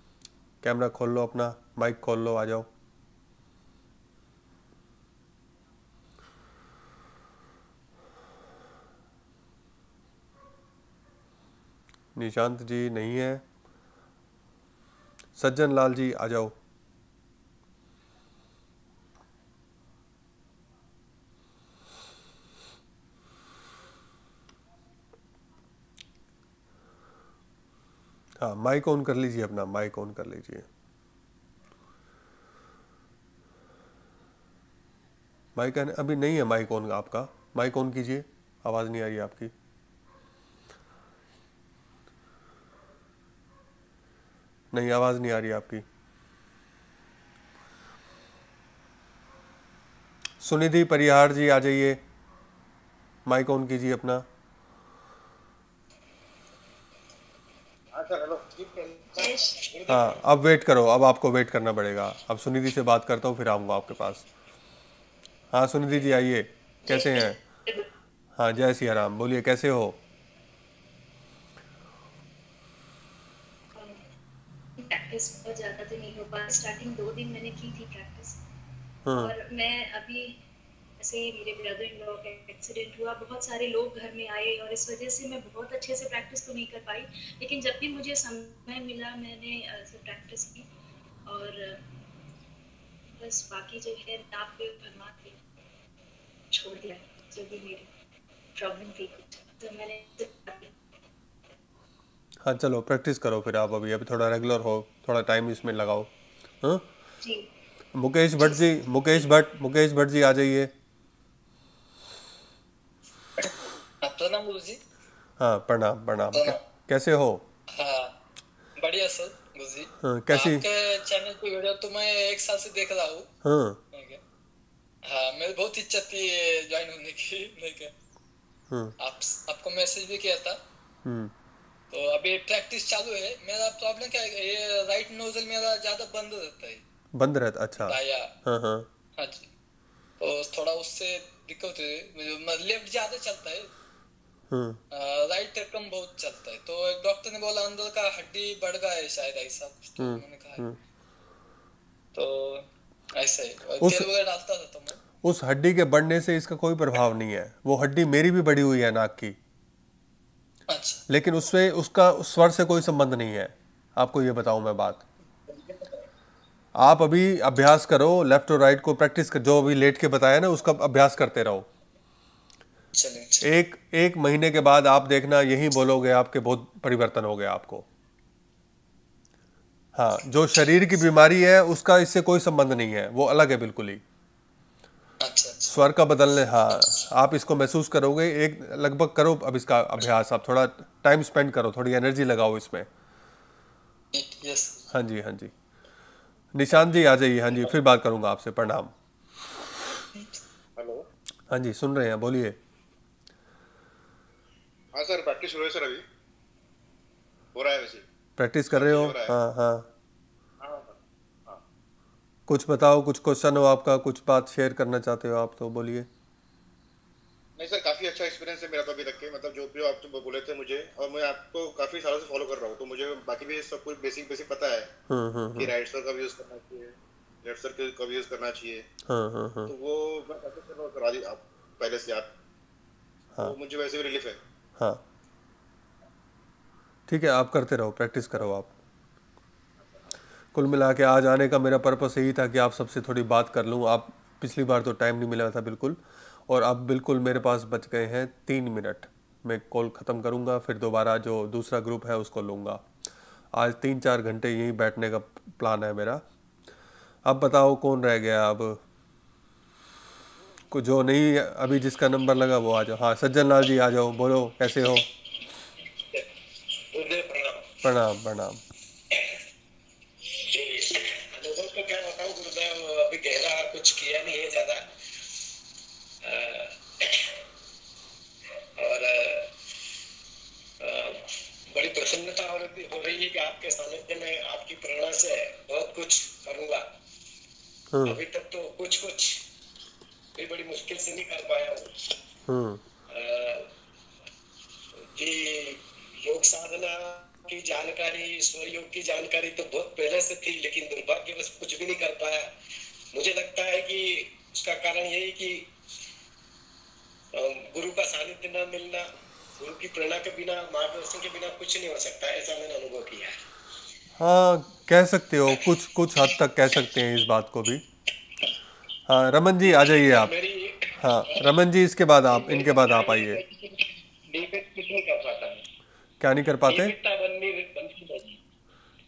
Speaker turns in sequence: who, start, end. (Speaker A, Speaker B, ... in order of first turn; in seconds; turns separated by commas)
Speaker A: 0.6-2.7, Speaker A: 12.2-13.4, Speaker A: 15.4-16.5, Speaker A: 28.4-30.7, Speaker A: 35.6-39.5, Speaker A: 44.7-45.8, Speaker A: 50.4-52.0, Speaker A: 53.3-54.3, Speaker B: 57.9-59.1, Speaker C: 59.1-59.8, Speaker A: 59.9-64.2, Speaker A: 65.5-67.4, Speaker C: 66.9-67.8, Speaker A: 68.4-70.0, Speaker C: 73.8-74.0, Speaker C: 74.8-78.4, Speaker A: 79.1-79.3, Speaker C: 79.2-80.4, Speaker C: 81.0-90.7, Speaker C: 91.3-91.8, Speaker C: 93.2-95.4, Speaker C: 96.5-97.9, Speaker C: 98.6-100.7, Speaker A: 102.4-106.1, Speaker C: 107.2-107.5, Speaker A: 108.0-110.7, Speaker D: 113.4-114.8, Speaker A: 115.4-117.4, Speaker D: 116.3-116.6, Speaker D: 117.8-118.1, Speaker D: 118.8-123.3, Speaker A: 120.0-120.6, Speaker A: 123.4-123.8, Speaker D: 123.9-124.2, Speaker D: 125.1-127.9, Speaker D: 129.0-130.6, Speaker A: 131.1-131.3, Speaker D: 131.9-136.8, Speaker A: 137.1-138.9, Speaker D: 137.8-138.3, Speaker D: 139.2-139.5, Speaker D: 140.2-143.7, Speaker A: 144.5-144.8, Speaker D: 144.9-150.7, Speaker A: 150.0-150.8, Speaker D: 152.1-155.0, Speaker A: 153.8-154.1, Speaker A: 155.2-159.4, Speaker D: 160.7-161.0, Speaker A: 161.1-165.0, Speaker A: 166.8-171.7, Speaker D: 172.9-173.5, Speaker A: 173.4-177.9, Speaker A: 180.0-184.0, Speaker D: 185.2-185.8, Speaker A: 185.7-192.9, Speaker D: 194.1-194.9, Speaker A: 194.9-195.5, Speaker A: 196.6-198.9, Speaker B: 200.8-201.0, Speaker A: 201.5-202.6, Speaker B: 204.9-206.0, Speaker B: 207.5-208.0, Speaker A: 208.4-209.9, Speaker B: 208.7-209.3, Speaker B: 210.6-211.6, Speaker A: 212.5-216.1, Speaker B: 217.6-224.9, Speaker A: 225.1-225.7, Speaker B: 225.6-226.9, Speaker B: 227.4-228.8, Speaker A: 229.1-229.7, Speaker B: 229.7-232.3, Speaker B: 233.4-234.4, Speaker A: 237.1-238.7, Speaker A: 240.5-252.9, Speaker A: 253.5-256.2, Speaker A: 257.2-258.8, Speaker A: 260.7-265.1, Speaker E: 266.9-267.7, Speaker A: 267.8-268.6, Speaker E: 270.5-274.9, Speaker E: 276.2-277.2, Speaker E: 278.8-279.5, Speaker E: 280.8-286.9, Speaker A: 287.9-288.2, Speaker E: 288.1-289.4, Speaker E: 290.4-291.9, Speaker A: 292.5-292.8, Speaker E: 293.1-293.7, Speaker E: 295.1-302.5, Speaker E: 303.1-305.7, Speaker E: 307.4-313.3, Speaker A: 314.2-317.8, Speaker A: 319.1-320.3, Speaker E: 319.7-320.9, Speaker A: 321.0-323.4, Speaker E: 322.9-323.3, Speaker E: 324.4-325.4, Speaker A: 326.2-326.9, Speaker E: 326.8-328.0